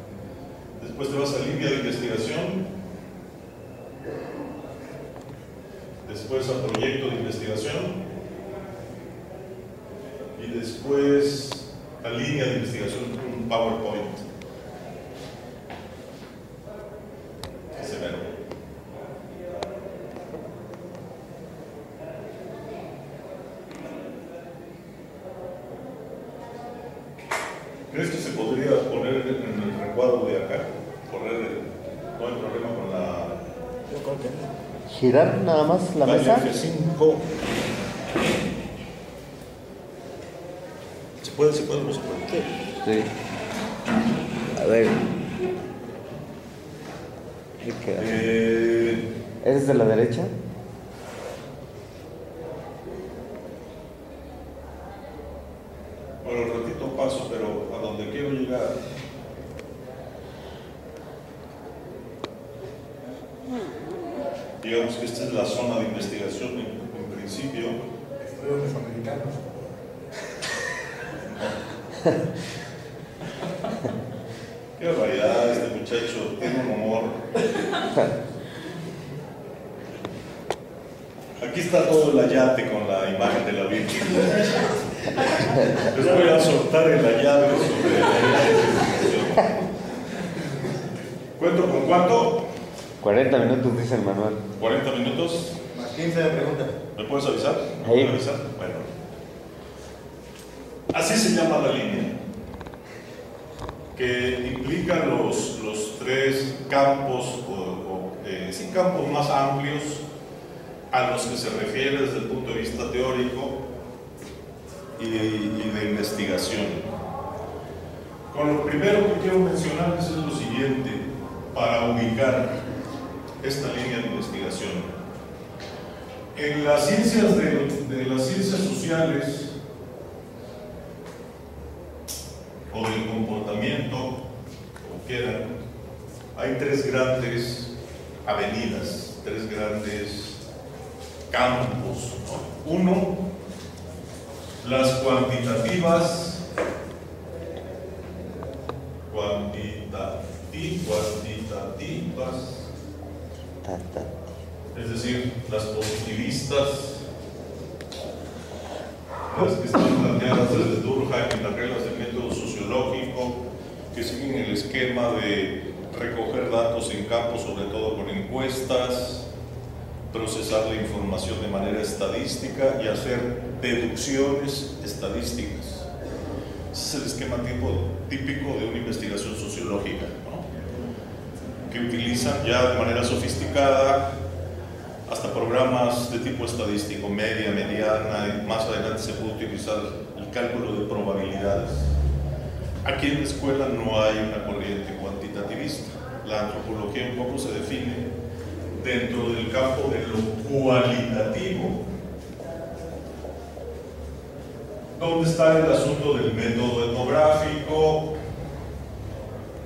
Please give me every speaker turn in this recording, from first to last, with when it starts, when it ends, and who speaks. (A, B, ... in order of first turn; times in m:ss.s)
0:00.8-0:02.7 A
0:06.0-0:08.0 A
0:10.4-0:14.2 A
0:17.7-0:18.3 A
0:27.9-0:33.4 A
0:33.9-0:34.4 B
0:34.9-0:36.5 C
0:36.0-0:37.2 A
0:41.2-0:42.5 A
0:42.8-0:43.1 C
0:44.5-0:45.1 C
0:47.6-0:48.1 C
0:48.0-0:49.0 A
0:49.4-0:50.3 C
0:56.2-0:58.8 A
1:04.6-1:07.8 A
1:08.2-1:09.4 B
1:14.8-1:17.3 A
1:21.4-1:24.6 A
1:25.2-1:29.6 A
1:31.4-1:32.4 A
1:33.0-1:34.4 C
1:34.6-1:35.6 A
1:35.8-1:36.7 B
1:36.9-1:38.9 A
1:37.8-1:38.2 C
1:40.9-1:42.2 A
1:44.0-1:50.0 A
1:50.9-1:53.6 A
1:55.0-1:56.9 A
1:58.3-2:02.6 A
2:03.4-2:04.9 A
2:06.3-2:09.6 A
2:12.7-2:14.2 A
2:14.8-2:15.5 A
2:16.4-2:17.7 A
2:18.2-2:20.4 A
2:21.3-2:23.2 A
2:24.6-2:26.4 A
2:29.1-2:32.7 A
2:33.6-2:34.1 C
2:34.7-2:37.0 A
2:39.3-2:43.4 A
2:43.9-2:49.3 A
2:50.1-2:55.9 A
2:56.7-3:00.4 A
3:01.7-3:04.1 A
3:05.1-3:11.9 A
3:12.8-3:18.0 A
3:18.7-3:21.8 A
3:25.0-3:28.1 A